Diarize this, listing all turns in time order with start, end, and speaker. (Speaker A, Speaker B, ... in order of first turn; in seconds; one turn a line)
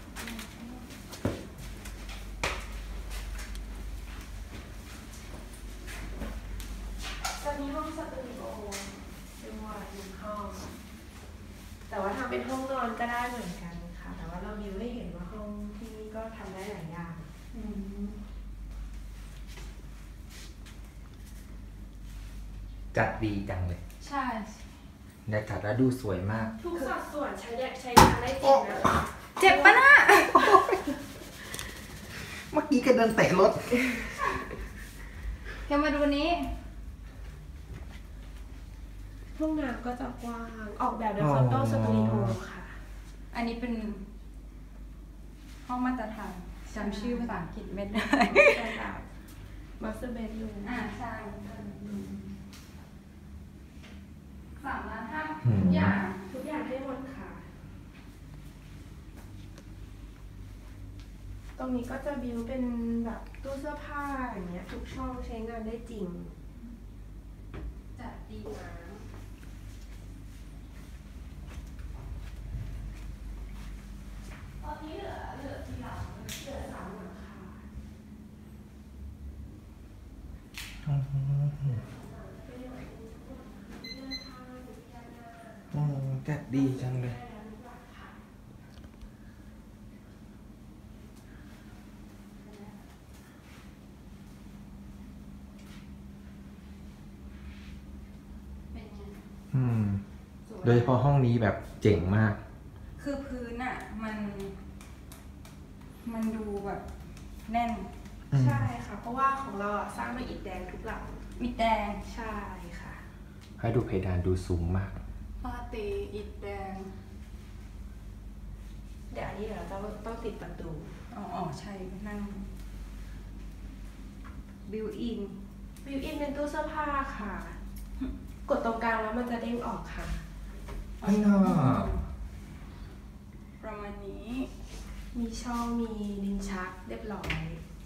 Speaker A: 0.2-0.8
Speaker B: 7.4-10.7
Speaker B: 11.9-17.3
Speaker A: 17.5-18.2
Speaker C: 22.9-23.8
Speaker A: 24.0-24.6
Speaker C: 25.2-26.6
Speaker B: 26.6-30.1
Speaker C: 28.4-29.0
Speaker A: 29.4-30.5
Speaker C: 30.3-31.0
Speaker C: 32.1-34.2
Speaker A: 35.6-36.5
Speaker B: 39.4-42.8
Speaker C: 41.2-42.4
Speaker A: 43.3-44.0
Speaker A: 45.6-48.6
Speaker B: 46.7-47.4
Speaker B: 48.2-49.1
Speaker B: 49.8-50.7
Speaker A: 50.6-52.3
Speaker A: 54.6-56.2
Speaker C: 55.4-56.0
Speaker B: 56.3-57.5
Speaker B: 61.5-66.3
Speaker A: 67.9-68.6
Speaker B: 68.5-69.0
Speaker B: 74.6-77.6
Speaker C: 80.8-81.8
Speaker B: 81.6-85.8
Speaker C: 85.7-87.2
Speaker B: 86.5-88.2
Speaker A: 92.4-92.8
Speaker A: 98.7-99.2
Speaker C: 99.5-100.0
Speaker A: 100.5-100.9
Speaker C: 100.6-102.4
Speaker A: 103.0-104.6
Speaker A: 106.0-106.8
Speaker A: 107.5-107.9
Speaker C: 108.3-108.7
Speaker B: 108.3-111.2
Speaker A: 111.3-112.0
Speaker B: 112.0-113.0
Speaker C: 113.6-115.0
Speaker A: 115.4-116.9
Speaker B: 119.1-120.9
Speaker A: 121.1-122.5
Speaker A: 124.7-125.4
Speaker B: 125.8-127.6
Speaker B: 128.5-130.2
Speaker A: 131.0-132.0
Speaker C: 131.0-131.9
Speaker A: 133.6-134.5
Speaker B: 135.1-137.6